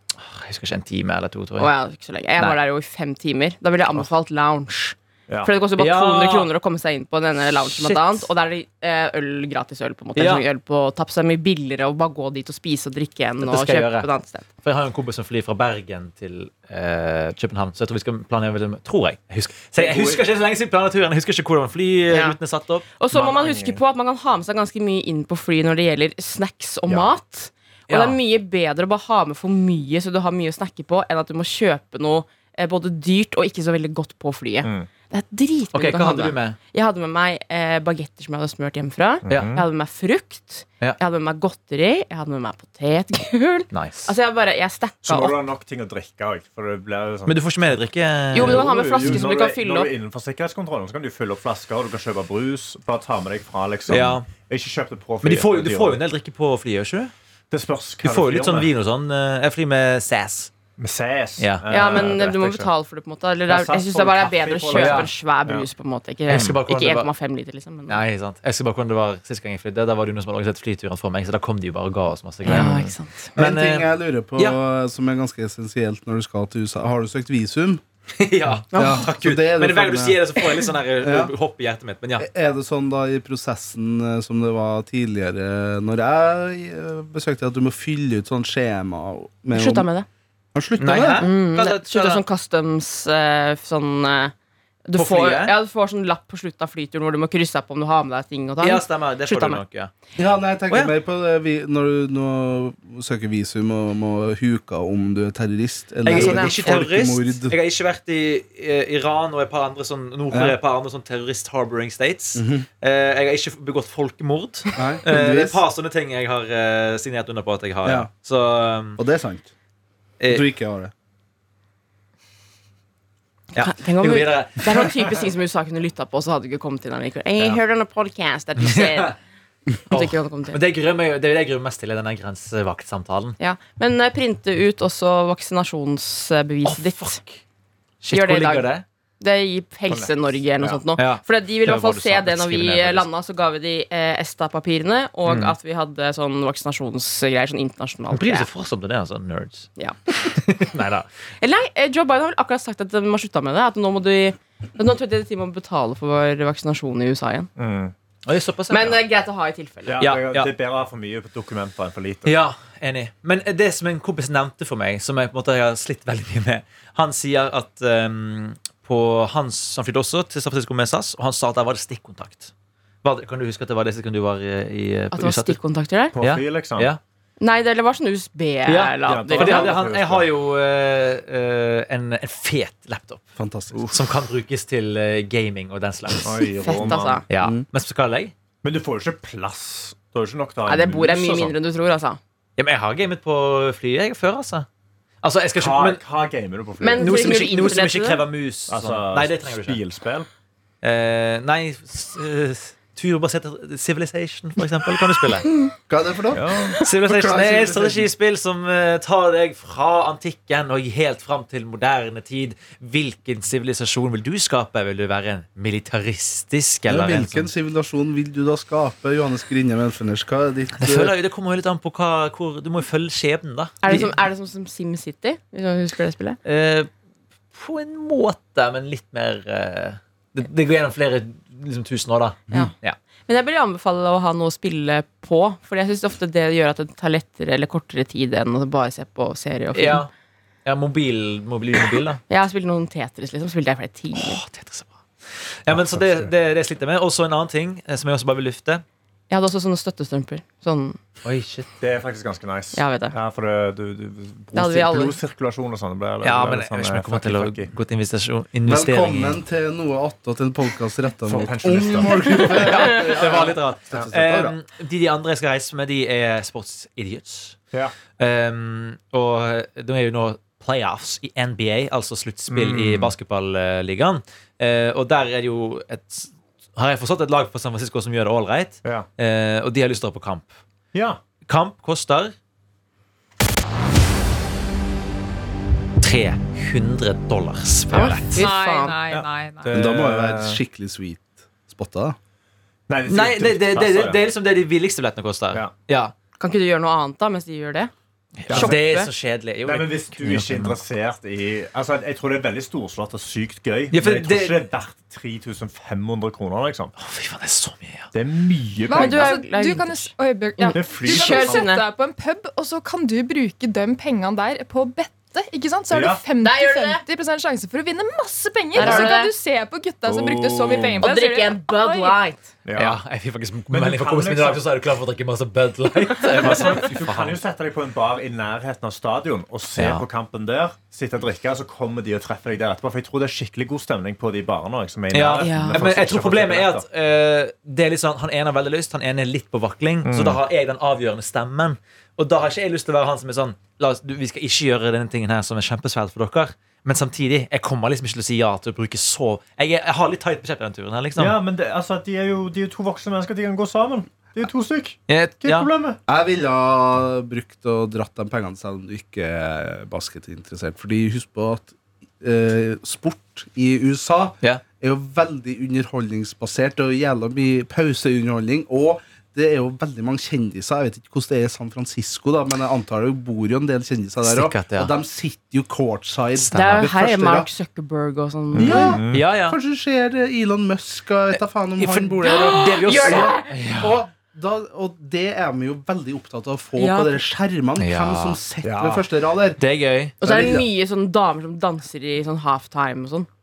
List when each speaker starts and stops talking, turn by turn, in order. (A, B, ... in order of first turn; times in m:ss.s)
0:00.2-0:01.7 A
0:01.6-0:14.4 B
0:05.8-0:06.5 A
0:07.7-0:08.2 A
0:10.1-0:10.4 A
0:13.4-0:14.1 A
0:14.6-0:22.8 A
0:19.7-0:20.2 C
0:22.1-0:22.4 B
0:23.0-0:45.4 B
0:23.1-0:23.8 C
0:27.9-0:28.2 A
0:34.6-0:34.9 C
0:35.7-0:36.6 A
0:39.2-0:39.6 C
0:39.3-0:39.6 A
0:43.7-0:44.1 A
0:45.0-0:47.4 C
0:47.2-0:49.2 A
0:48.3-0:49.9 B
0:48.3-0:56.0 C
0:53.9-0:54.3 A
0:55.2-0:57.1 A
0:57.5-0:58.7 C
0:58.0-1:00.5 A
1:00.8-1:02.7 C
1:01.4-1:01.9 A
1:01.7-1:08.0 B
1:03.5-1:05.7 C
1:04.7-1:05.1 A
1:06.3-1:07.1 A
1:06.3-1:06.5 C
1:07.9-1:12.8 A
1:12.4-1:13.3 B
1:12.5-1:12.9 C
1:13.4-1:14.6 A
1:13.4-1:17.8 D
1:18.2-1:22.3 A
1:18.7-1:19.0 B
1:18.7-1:20.2 D
1:21.0-1:21.3 D
1:22.2-1:29.9 D
1:29.5-1:30.1 B
1:30.5-1:31.2 D
1:30.8-1:32.2 A
1:31.2-1:34.3 B
1:34.9-1:39.6 B
1:34.9-1:35.5 A
1:38.6-1:39.9 A
1:40.2-1:47.5 D
1:46.0-1:46.8 B
1:46.0-1:59.0 A
1:50.3-1:50.6 D
1:52.4-1:52.6 D
1:54.7-1:55.6 D
1:57.8-1:58.1 D
1:59.0-1:59.5 D
2:00.2-2:00.4 A
2:00.3-2:00.9 D
2:03.5-2:05.1 A
2:03.6-2:09.2 B
2:08.6-2:09.1 A
2:09.9-2:10.6 B
2:09.9-2:13.4 A
2:13.4-2:17.2 B
2:16.6-2:17.4 A
2:18.0-2:18.8 A
2:18.1-2:28.5 B
2:19.9-2:20.8 C
2:20.9-2:23.1 A
2:25.2-2:25.6 A
2:28.1-2:29.7 A
2:29.8-2:30.4 B
2:30.2-2:31.1 A
2:31.4-2:37.5 B
2:37.6-2:37.9 C
2:38.2-2:39.0 A
2:38.7-2:40.1 B
2:39.9-2:42.4 C
2:40.0-2:40.5 A
2:42.2-2:52.5 A
2:53.0-2:55.6 A
2:55.1-2:56.2 B
2:56.2-2:56.9 C
2:56.2-2:57.0 A
2:57.4-2:59.8 B
2:58.6-3:03.3 A
2:59.1-3:00.3 C
3:03.4-3:03.8 D
3:03.9-3:06.3 A
3:06.2-3:07.2 C
3:06.6-3:07.2 B
3:07.3-3:08.3 A
3:07.4-3:07.6 D
3:08.6-3:11.5 C
3:10.6-3:12.2 B
3:12.6-3:14.6 A
3:15.2-3:16.0 A
3:15.6-3:17.4 C
3:16.8-3:18.2 B
3:16.9-3:19.8 A
3:18.7-3:20.3 C
3:20.8-3:25.5 A
3:25.9-3:28.1 D
3:26.3-3:26.8 C
3:26.8-3:37.5 A
3:36.9-3:41.1 D
3:40.8-3:44.2 A
3:43.8-3:46.4 B
3:46.4-3:46.9 A
3:47.5-3:53.0 A
3:53.3-4:00.0 B
3:59.7-4:00.1 A
4:00.6-4:02.2 A
4:02.3-4:04.4 B
4:04.1-4:05.0 A
4:05.5-4:08.8 A
4:05.7-4:06.3 C
4:09.3-4:11.0 B
4:11.2-4:11.7 A
4:11.8-4:17.7 C
4:12.7-4:13.1 B
4:14.5-4:15.2 B
4:16.2-4:19.4 A
4:18.6-4:24.5 D
4:21.2-4:22.5 C
4:22.6-4:27.6 A
4:28.2-4:40.5 A
4:32.5-4:33.1 C
4:40.9-4:41.2 C
4:41.4-4:42.3 A
4:46.0-4:48.4 A
4:47.9-4:49.0 B
4:48.3-4:49.7 E
4:49.1-4:50.6 C
4:49.7-4:52.2 D
4:52.9-4:54.2 C
4:53.1-4:56.1 A
4:56.4-4:57.9 B
4:58.4-5:00.8 A
4:58.5-4:58.8 C
4:58.5-4:59.1 B
4:59.6-5:06.9 C
5:03.9-5:04.6 A
5:07.0-5:08.1 A
5:08.1-5:09.4 C
5:08.9-5:22.2 E
5:08.9-5:11.8 B
5:10.7-5:11.7 C
5:15.9-5:16.2 C
5:16.4-5:17.0 B
5:18.7-5:19.3 B
5:18.8-5:19.2 C
5:20.0-5:21.1 C
5:21.0-5:22.5 B
5:22.6-5:23.0 C
5:22.8-5:27.4 A
5:23.7-5:24.6 C
5:26.2-5:36.8 C
5:29.8-5:30.0 A
5:35.1-5:51.4 A
5:35.4-5:35.8 B
5:40.0-5:40.4 C
5:51.2-5:56.0 C
5:55.1-5:55.7 A
5:56.1-6:17.5 D
6:14.2-6:14.9 A
6:16.4-6:16.9 A
6:16.5-6:19.0 B
6:18.5-6:19.2 C
6:18.6-6:29.6 D
6:19.1-6:19.6 A
6:21.3-6:24.0 A
6:22.2-6:23.5 B
6:26.8-6:27.2 B
6:27.8-6:28.4 A
6:28.6-6:29.0 C
6:29.6-6:30.1 A
6:30.2-6:30.6 D
6:30.2-6:33.3 B